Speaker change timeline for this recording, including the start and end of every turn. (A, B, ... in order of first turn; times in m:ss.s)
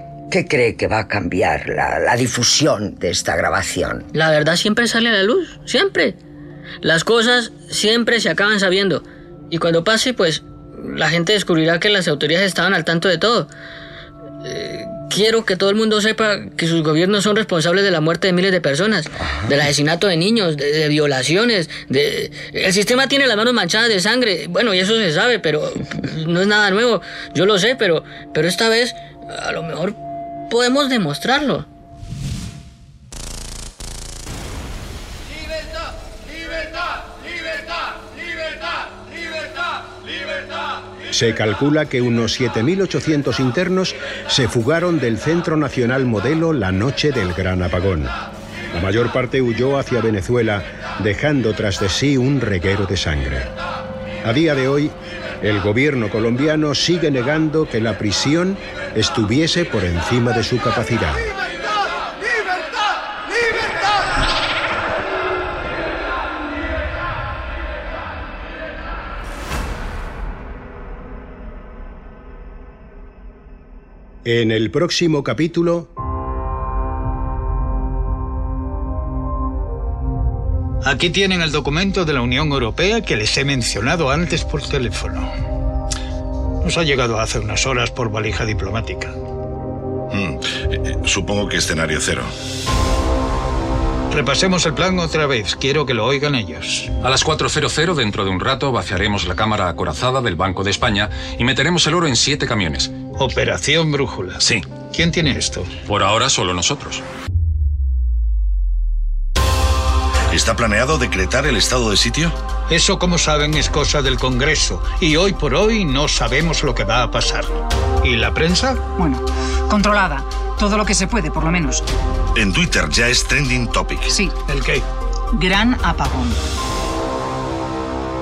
0:00.3-0:04.1 A
0:04.1-0:06.2 B
0:06.8-0:13.5 B
0:14.4-0:30.0 B
0:19.2-0:19.5 A
0:30.5-0:31.7 B
0:41.1-0:48.2 C
0:48.7-0:53.5 C
0:54.2-1:01.3 C
1:14.2-1:15.9 C
1:20.8-1:25.3 D
1:26.6-1:29.2 D
1:30.1-1:32.3 E
1:34.1-1:37.0 D
1:37.0-1:43.0 F
1:43.1-1:45.8 D
1:45.9-1:47.0 F
1:50.3-1:52.4 E
1:52.7-1:59.0 D
1:59.0-2:01.8 G
2:02.4-2:04.2 E
2:04.4-2:04.8 D
2:05.4-2:06.4 G